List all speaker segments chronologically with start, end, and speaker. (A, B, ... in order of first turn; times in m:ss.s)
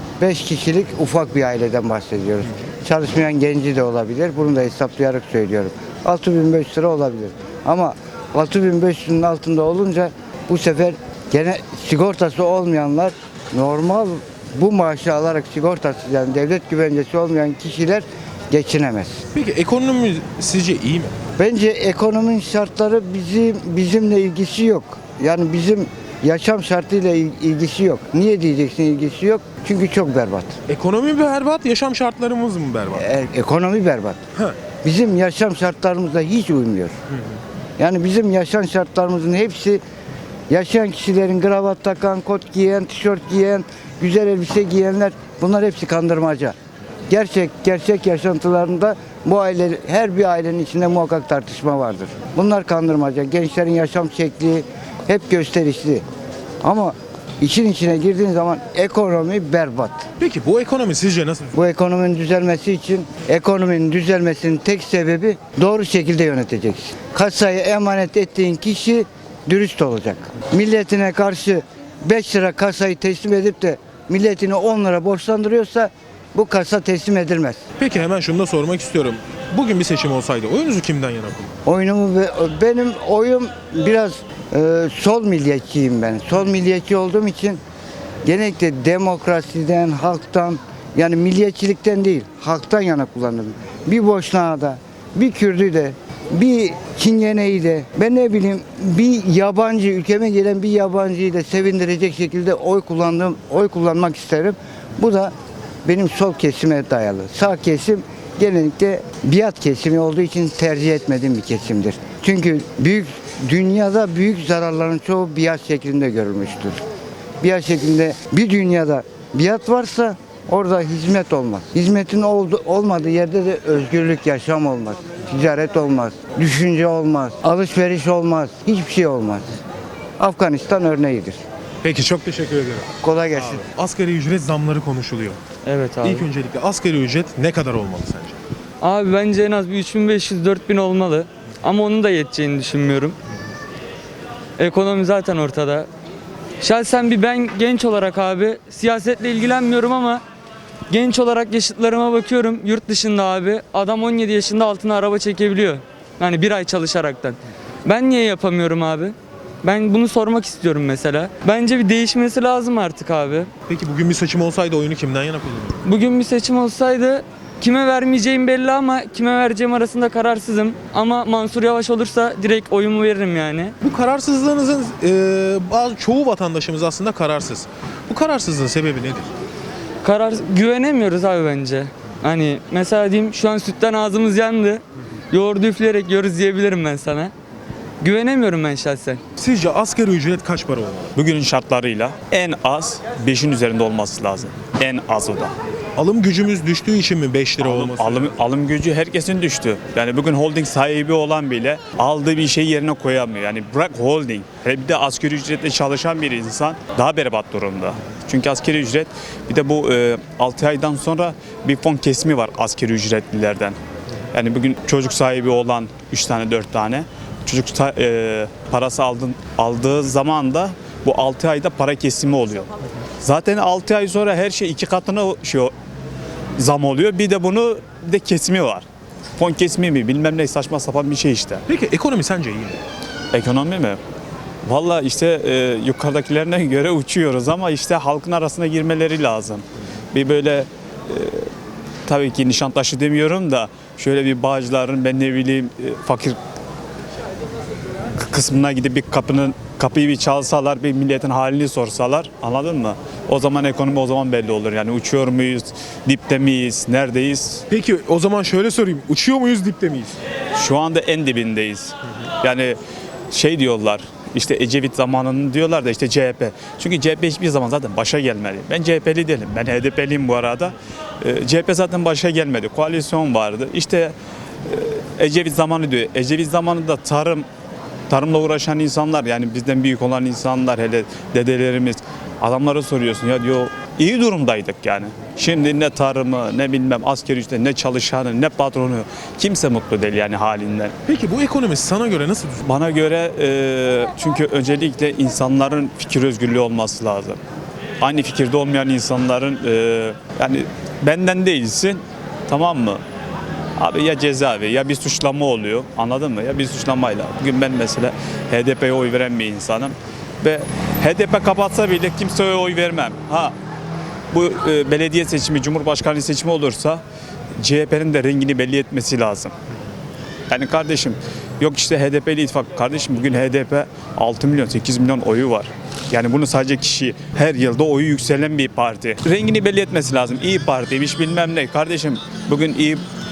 0:00.2-0:19.2 A
0:19.3-0:21.1 B
0:21.4-0:30.5 A
0:30.7-0:33.1 B
0:33.0-0:34.2 A
0:34.8-0:36.9 A
0:37.1-0:37.4 B
0:37.8-0:39.8 A
0:40.5-0:46.6 A
0:47.1-0:56.0 A
0:56.6-1:00.0 A
1:00.2-1:01.6 B
1:01.6-1:17.6 A
1:17.8-1:21.6 B
1:21.7-1:27.6 A
1:28.2-1:45.3 A
1:45.8-1:56.8 A
1:57.4-2:09.6 A
2:10.2-2:11.4 A
2:11.8-2:15.4 B
2:13.0-2:13.6 A
2:15.6-2:16.3 C
2:16.0-2:18.4 B
2:18.8-2:23.2 C
2:24.6-2:25.9 C
2:26.6-2:30.2 C
2:30.9-2:43.5 C
2:43.7-2:45.8 B
2:45.8-2:53.8 C
2:53.8-2:59.3 B
3:00.0-3:07.3 C
3:08.0-3:09.2 C
3:09.4-3:11.1 B
3:11.2-3:15.5 D
3:15.9-3:18.4 B
3:17.6-3:33.8 D
3:34.3-3:42.7 D
3:43.2-3:45.7 D
3:46.6-3:48.8 D
3:49.4-3:51.6 D
3:51.7-3:52.8 B
3:53.3-3:54.0 D
3:54.6-4:01.5 D
4:02.1-4:06.4 D
4:08.2-4:17.6 D
4:17.7-4:20.2 B
4:20.6-4:22.8 D
4:23.3-4:34.1 D
4:34.7-4:37.5 D
4:38.1-4:50.9 D
4:51.1-4:52.6 B
4:52.6-4:57.4 D
4:58.0-5:03.0 D
5:03.8-5:13.5 D
5:14.3-5:17.0 D
5:17.6-5:19.5 D
5:20.5-5:33.0 D